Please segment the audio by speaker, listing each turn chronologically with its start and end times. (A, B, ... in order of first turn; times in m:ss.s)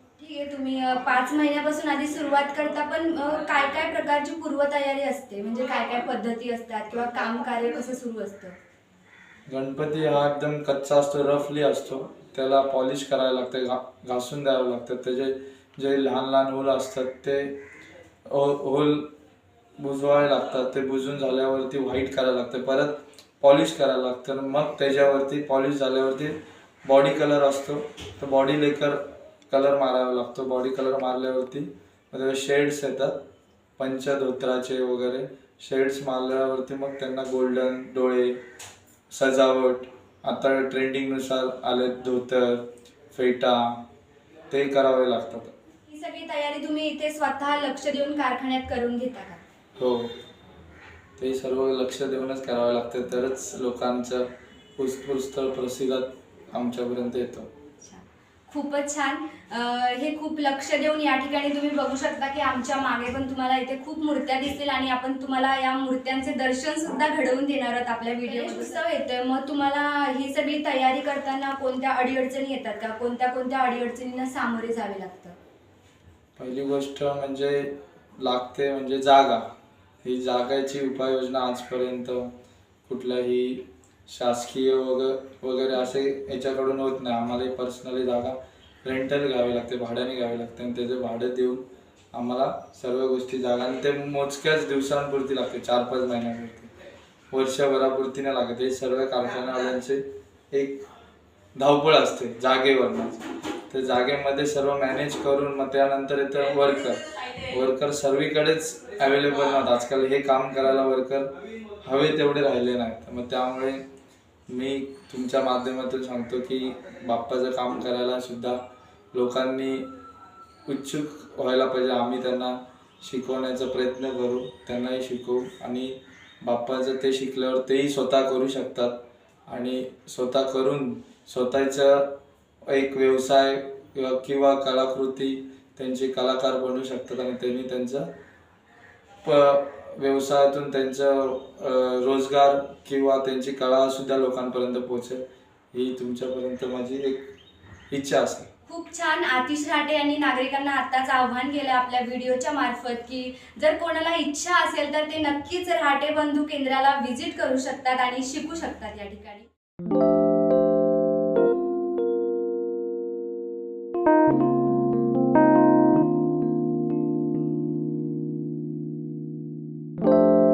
0:00.2-0:08.6 A
0:09.5-0:17.6 B
0:18.3-0:19.1 B
0:19.8-0:33.1 B
0:33.8-0:38.4 B
0:39.1-0:43.8 B
0:44.5-0:45.5 B
0:45.9-0:49.4 A
0:49.8-0:50.1 B
0:51.2-0:57.5 B
0:57.8-1:15.4 A
1:16.4-1:19.5 B
1:20.0-1:22.3 B
1:22.8-1:36.7 B
1:37.3-1:40.8 B
1:41.5-1:53.8 B
1:54.5-1:58.6 B
1:59.1-1:59.9 B
2:00.6-2:08.9 B
2:09.5-2:12.1 B
2:12.7-2:18.1 B
2:19.2-2:25.2 B
2:25.7-2:27.2 B
2:27.9-2:28.5 B
2:28.7-2:39.5 A